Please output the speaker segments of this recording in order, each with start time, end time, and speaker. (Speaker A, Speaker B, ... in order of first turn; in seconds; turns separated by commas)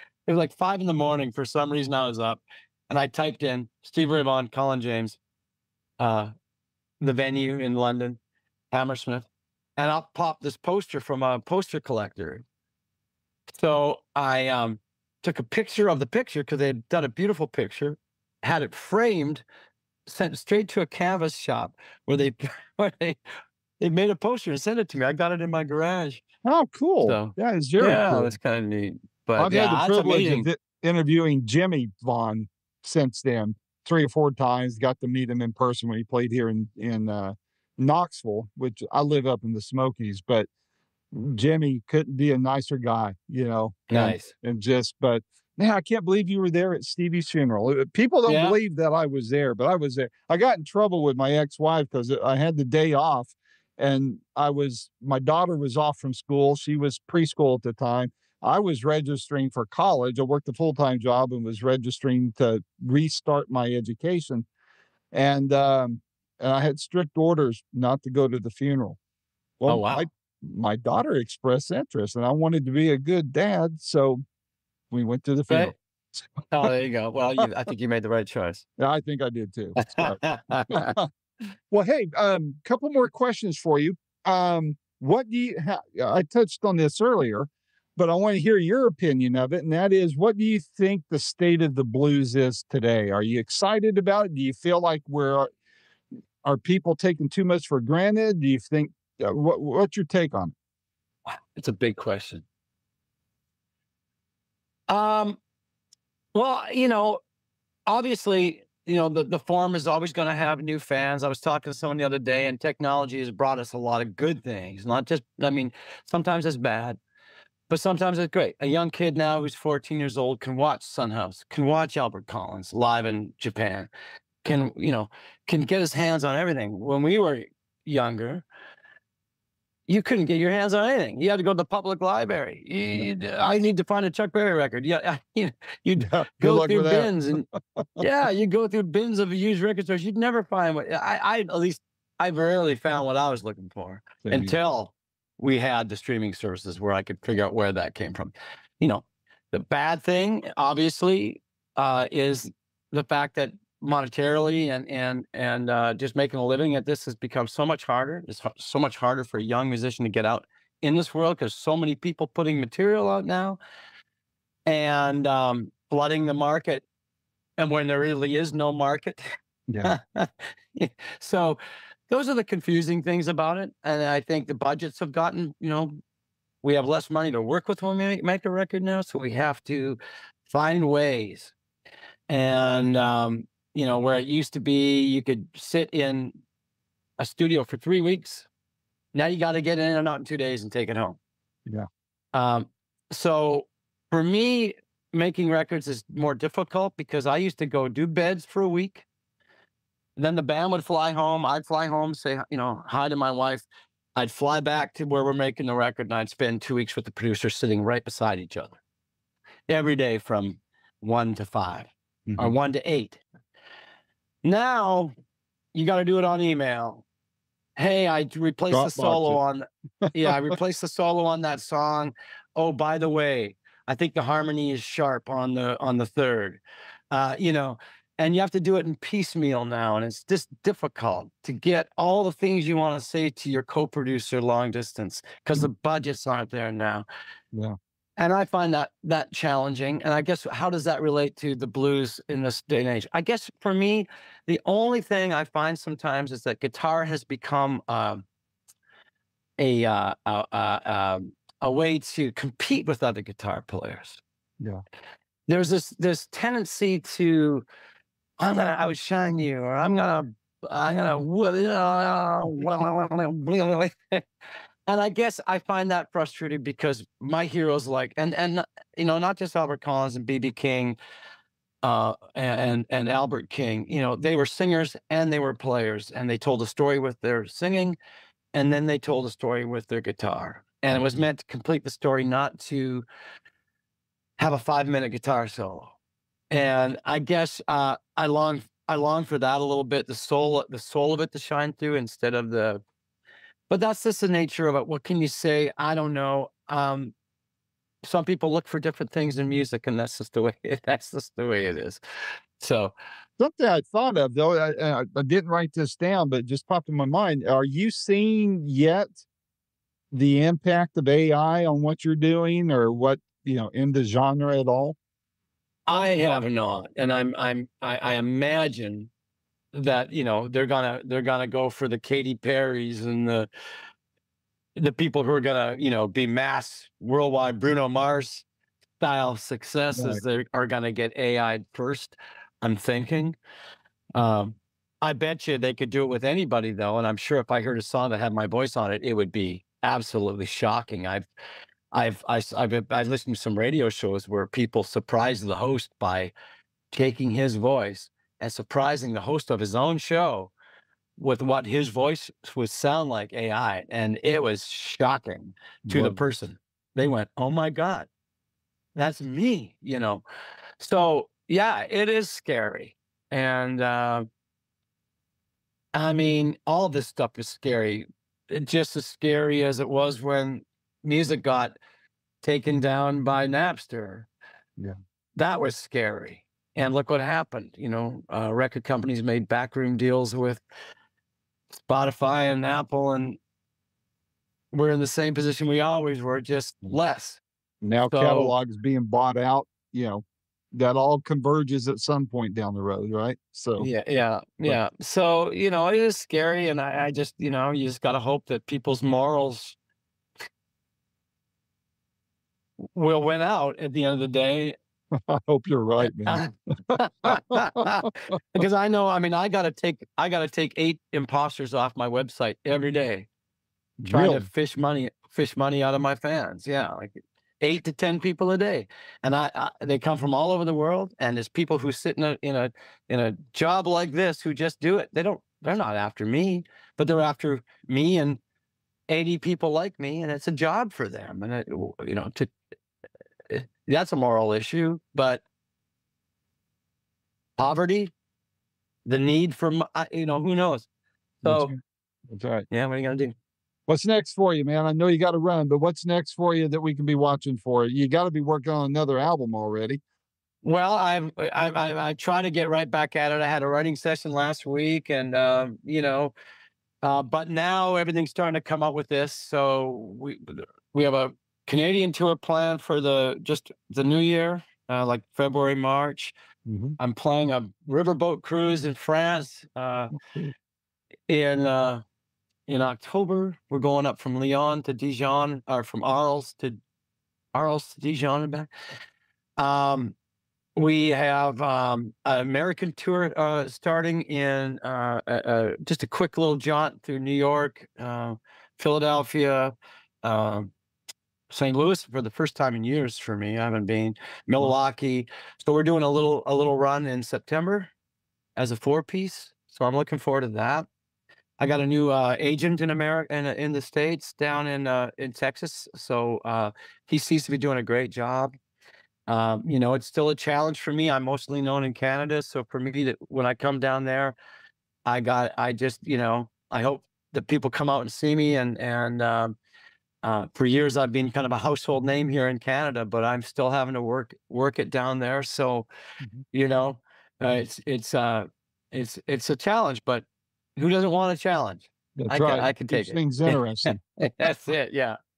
Speaker A: 0.3-5.2, Speaker A: 6.0-6.3, Speaker A: 7.0-8.2, Speaker A: 8.7-9.3, Speaker A: 9.8-12.4, Speaker A: 13.5-19.4, Speaker A: 20.1-23.2, Speaker A: 23.8-26.2, Speaker B: 26.4-28.3, Speaker A: 27.0-30.5, Speaker B: 29.4-40.5, Speaker B: 41.1-64.5, Speaker A: 43.9-44.3, Speaker A: 48.3-48.6, Speaker B: 65.1-69.0, Speaker B: 69.6-74.2, Speaker A: 69.7-70.1, Speaker B: 74.9-76.7, Speaker A: 76.5-78.7, Speaker B: 78.8-81.1, Speaker A: 79.8-81.0, Speaker B: 81.7-95.5, Speaker B: 96.4-100.5, Speaker A: 101.3-102.5, Speaker A: 104.9-105.4, Speaker A: 106.3-107.2, Speaker A: 107.9-117.0, Speaker A: 117.7-123.9, Speaker A: 124.4-128.4, Speaker A: 129.9-137.5, Speaker B: 136.0-138.1, Speaker A: 138.0-163.6, Speaker B: 144.3-144.6, Speaker A: 164.7-166.8, Speaker A: 167.6-169.2, Speaker B: 169.7-169.9, Speaker A: 169.8-176.0, Speaker A: 176.6-181.6, Speaker A: 182.3-186.4, Speaker A: 187.2-188.5, Speaker A: 189.1-191.2, Speaker A: 192.3-199.1, Speaker A: 200.2-208.8, Speaker A: 209.7-213.2, Speaker B: 212.3-212.6, Speaker A: 214.4-215.1, Speaker A: 215.7-217.0, Speaker A: 217.8-226.6, Speaker B: 218.7-219.4, Speaker A: 227.1-237.1, Speaker A: 238.2-248.2, Speaker A: 249.6-254.2, Speaker A: 255.5-257.6, Speaker A: 258.4-264.2, Speaker A: 264.9-271.0, Speaker A: 271.8-278.0, Speaker A: 278.5-283.0, Speaker A: 284.4-285.9, Speaker A: 286.5-292.8, Speaker A: 293.7-297.1, Speaker A: 298.0-302.0, Speaker A: 302.6-302.9, Speaker B: 303.4-309.2, Speaker B: 310.1-315.0, Speaker A: 315.9-319.1, Speaker A: 319.7-323.5, Speaker A: 324.8-328.5, Speaker A: 329.0-333.4, Speaker B: 329.9-330.2, Speaker A: 334.1-341.3, Speaker A: 341.9-346.3, Speaker A: 346.9-350.5, Speaker A: 351.2-358.1, Speaker B: 355.9-356.2, Speaker A: 359.0-360.2, Speaker A: 360.8-364.3, Speaker A: 365.9-371.8, Speaker A: 372.4-374.3, Speaker A: 375.4-380.6, Speaker A: 381.7-383.4, Speaker A: 384.7-387.4, Speaker B: 387.8-393.9, Speaker A: 388.1-388.6, Speaker A: 393.8-399.8, Speaker A: 402.9-404.8, Speaker B: 405.1-408.1, Speaker A: 406.0-413.3, Speaker B: 414.0-414.5, Speaker A: 414.1-428.4, Speaker A: 429.1-432.5, Speaker A: 433.5-435.4, Speaker A: 437.6-438.1, Speaker A: 439.1-440.9, Speaker A: 441.4-441.7, Speaker B: 441.4-442.7, Speaker A: 442.7-443.4, Speaker B: 443.9-450.0, Speaker A: 450.6-456.3, Speaker A: 457.0-466.3, Speaker B: 466.7-467.0, Speaker A: 467.0-470.1, Speaker B: 470.3-470.5, Speaker A: 471.3-472.0, Speaker A: 472.7-476.8, Speaker A: 477.5-478.7, Speaker A: 479.6-480.1, Speaker A: 480.8-490.7, Speaker A: 491.5-497.9, Speaker A: 498.6-500.9, Speaker A: 501.6-508.6, Speaker A: 509.3-514.4, Speaker A: 515.1-519.5, Speaker A: 520.2-525.9, Speaker A: 526.5-530.2, Speaker A: 530.8-535.2, Speaker B: 532.2-534.0